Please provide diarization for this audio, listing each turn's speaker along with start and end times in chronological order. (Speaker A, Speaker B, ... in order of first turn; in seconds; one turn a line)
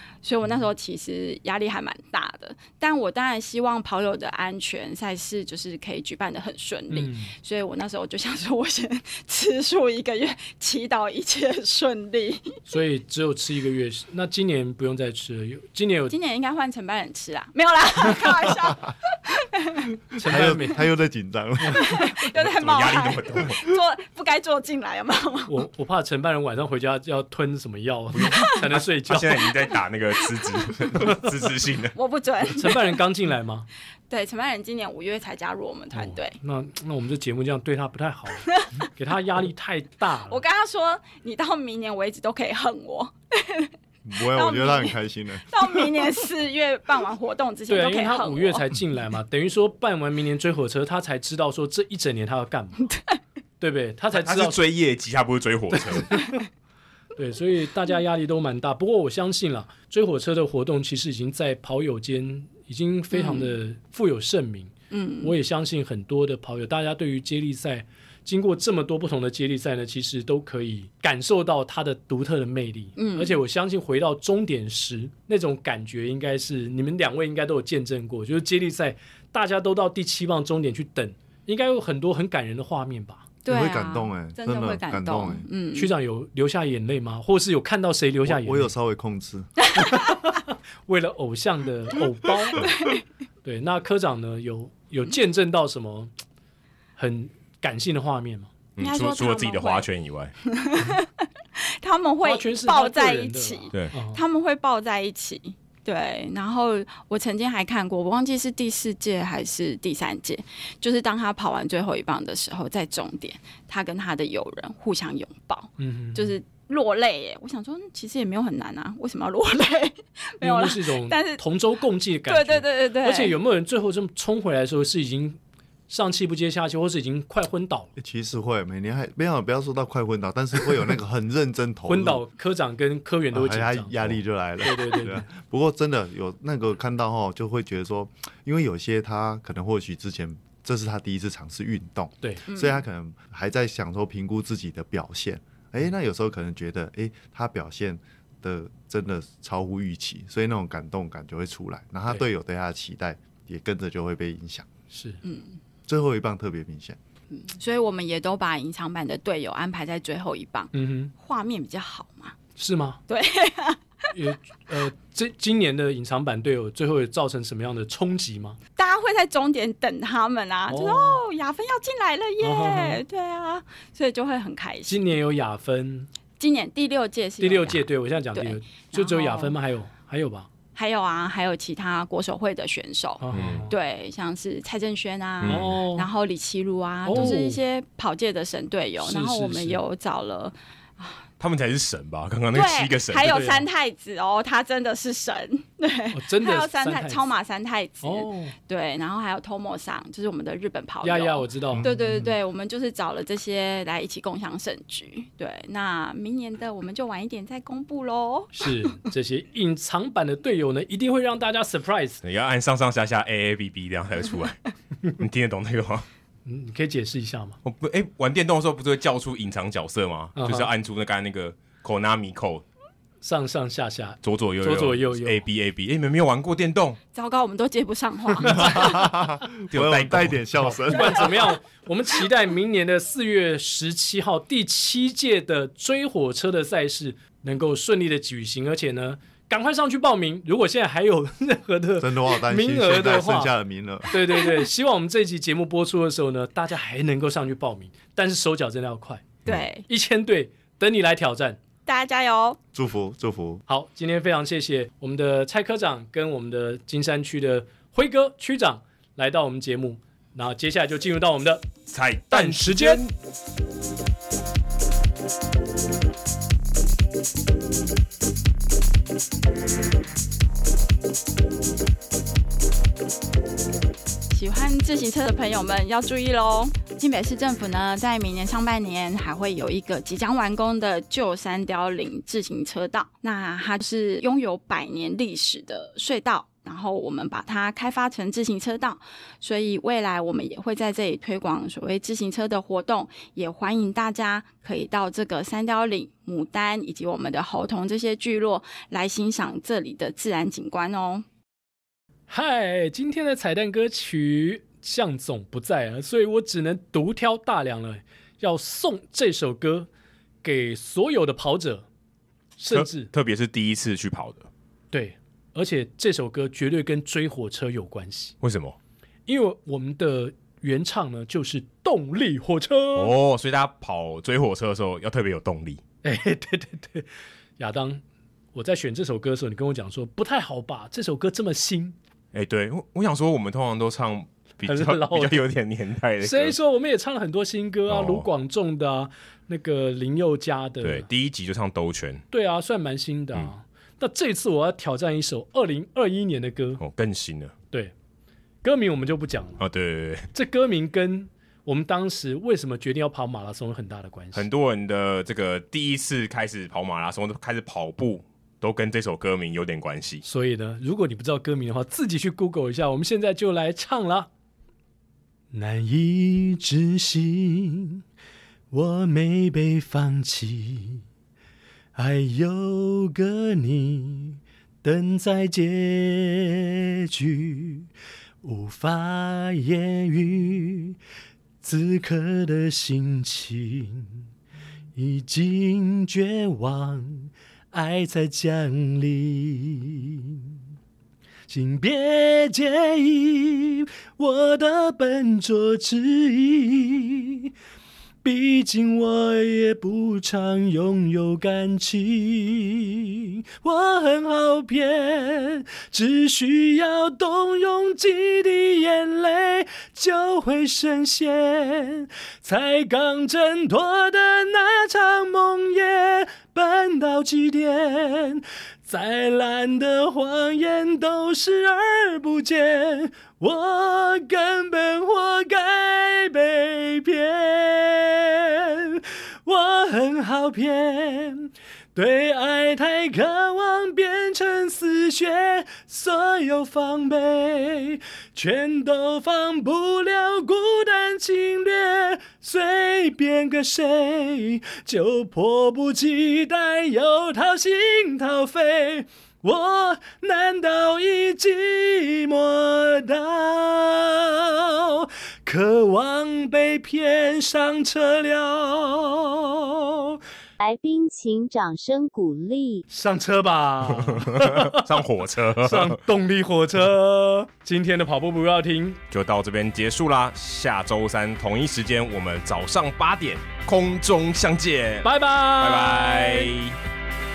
Speaker A: 0.2-12.6
Speaker B: 6.9-7.3
Speaker B: 12.7-16.1
Speaker A: 16.1-20.0
Speaker B: 20.1-20.9
Speaker C: 20.2-22.1
Speaker B: 21.7-21.9
Speaker A: 21.7-25.6
Speaker D: 22.3-23.7
Speaker B: 25.5-29.4
Speaker D: 28.1-31.9
Speaker A: 31.9-32.9
Speaker B: 32.5-33.7
Speaker A: 34.1-36.4
Speaker B: 35.9-40.4
Speaker A: 40.3-43.7
Speaker C: 44.0-45.9
Speaker A: 44.3-48.7
Speaker B: 47.7-52.9
Speaker B: 53.6-54.6
Speaker D: 54.1-56.2
Speaker B: 55.7-56.4
Speaker B: 57.2-83.3
Speaker A: 63.1-63.5
Speaker A: 64.9-65.3
Speaker A: 73.0-73.4
Speaker A: 83.4-85.9
Speaker C: 83.5-85.5
Speaker B: 85.7-88.7
Speaker C: 88.2-89.5
Speaker B: 89.8-92.7
Speaker A: 92.5-93.0
Speaker B: 93.4-96.1
Speaker B: 97.0-98.5
Speaker D: 98.8-100.3
Speaker A: 98.8-99.9
Speaker A: 100.5-121.4
Speaker B: 102.2-104.2
Speaker B: 115.8-116.3
Speaker B: 120.4-127.9
Speaker A: 122.3-123.4
Speaker C: 128.0-132.2
Speaker B: 131.9-135.3
Speaker C: 133.3-154.7
Speaker A: 142.5-142.8
Speaker B: 154.9-155.2
Speaker A: 155.2-155.6
Speaker C: 155.9-157.0
Speaker A: 157.3-162.4
Speaker B: 160.7-161.1
Speaker B: 162.6-163.0
Speaker A: 163.1-164.1
Speaker B: 164.1-168.6
Speaker A: 168.8-175.1
Speaker B: 170.7-171.2
Speaker B: 172.4-173.0
Speaker B: 174.9-176.1
Speaker A: 176.4-179.6
Speaker B: 177.4-180.5
Speaker A: 180.8-191.2
Speaker B: 183.2-183.7
Speaker D: 183.3-183.7
Speaker D: 185.4-185.8
Speaker B: 185.4-186.1
Speaker B: 187.0-187.6
Speaker B: 189.0-189.8
Speaker D: 191.4-193.5
Speaker A: 192.5-208.9
Speaker B: 193.2-193.7
Speaker B: 196.1-197.3
Speaker B: 198.0-198.6
Speaker B: 201.0-201.9
Speaker C: 201.7-202.3
Speaker B: 208.5-212.2
Speaker D: 212.2-216.1
Speaker B: 216.5-217.6
Speaker D: 217.6-222.7
Speaker B: 220.4-220.7
Speaker B: 223.2-225.4
Speaker D: 224.2-227.0
Speaker A: 227.1-229.1
Speaker C: 228.4-231.5
Speaker D: 229.7-230.7
Speaker B: 230.8-243.5
Speaker C: 242.0-244.1
Speaker B: 244.1-249.4
Speaker A: 249.5-249.9
Speaker B: 249.9-251.6
Speaker A: 251.8-252.6
Speaker C: 252.7-253.6
Speaker B: 253.7-261.6
Speaker D: 261.9-263.1
Speaker B: 262.3-263.0
Speaker A: 274.3-301.3
Speaker B: 302.3-309.9
Speaker B: 310.4-311.9
Speaker B: 312.6-313.1
Speaker D: 312.7-314.5
Speaker B: 314.9-318.4
Speaker D: 318.4-318.8
Speaker B: 319.3-323.1
Speaker D: 322.9-325.8
Speaker B: 326.0-328.0
Speaker B: 328.5-332.0
Speaker D: 332.3-336.6
Speaker B: 334.6-335.4
Speaker B: 336.2-341.1
Speaker D: 337.9-338.3
Speaker D: 340.8-342.2
Speaker B: 342.3-346.8
Speaker D: 346.8-347.5
Speaker B: 348.6-349.6
Speaker D: 349.6-350.3
Speaker B: 350.3-354.5
Speaker D: 354.3-360.2
Speaker B: 360.2-364.3
Speaker B: 365.5-368.0
Speaker B: 368.7-371.0
Speaker B: 371.9-377.9
Speaker B: 378.4-381.0
Speaker B: 381.6-384.2
Speaker B: 384.9-390.5
Speaker B: 391.5-397.5
Speaker B: 398.2-460.2
Speaker E: 460.6-462.8
Speaker B: 462.9-465.0
Speaker D: 463.9-466.0
Speaker B: 465.6-469.0
Speaker D: 469.1-476.8
Speaker B: 475.0-476.5